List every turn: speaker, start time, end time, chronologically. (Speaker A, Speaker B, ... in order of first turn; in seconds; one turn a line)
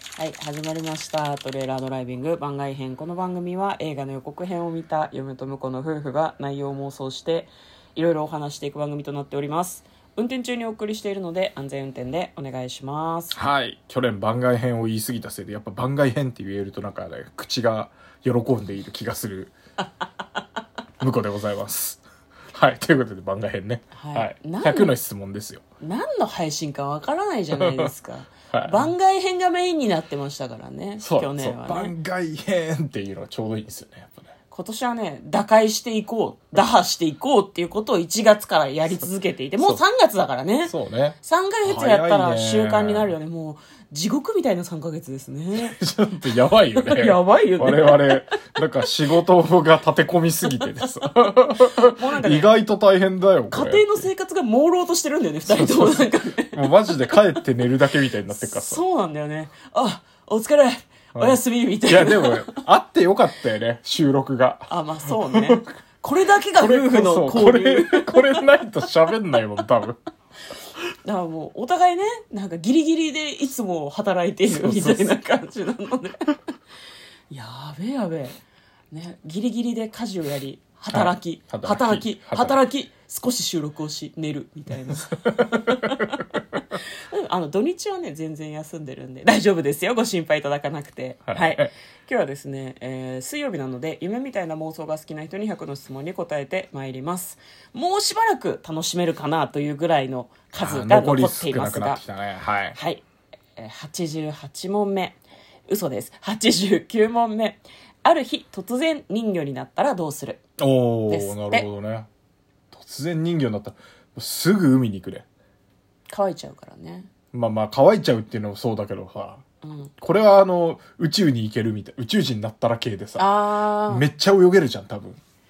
Speaker A: 0.2-13.4
Speaker B: 13.3-19.5
Speaker B: 21.0-22.0
Speaker B: 22.5-25.6
Speaker A: 23.9-24.9
Speaker A: 25.8-31.9
Speaker B: 27.6-27.9
Speaker B: 28.5-28.9
Speaker B: 31.0-34.3
Speaker A: 34.5-45.8
Speaker B: 40.6-43.1
Speaker B: 45.6-54.1
Speaker A: 46.8-48.3
Speaker A: 50.6-51.1
Speaker A: 51.8-52.5
Speaker A: 53.5-57.2
Speaker B: 55.5-58.8
Speaker A: 58.3-62.6
Speaker B: 61.1-65.7
Speaker A: 64.7-68.4
Speaker B: 66.6-70.0
Speaker A: 71.0-76.3
Speaker B: 74.5-75.2
Speaker A: 77.3-78.4
Speaker A: 78.9-86.2
Speaker B: 80.9-82.6
Speaker B: 84.9-86.0
Speaker A: 87.1-102.0
Speaker B: 91.3-91.7
Speaker B: 100.6-102.8
Speaker A: 102.7-103.0
Speaker A: 103.6-110.4
Speaker B: 110.6-112.1
Speaker A: 111.1-111.7
Speaker B: 112.7-115.2
Speaker A: 116.1-117.1
Speaker B: 117.3-119.4
Speaker A: 119.6-119.9
Speaker B: 120.0-123.3
Speaker A: 123.2-124.0
Speaker B: 123.9-125.2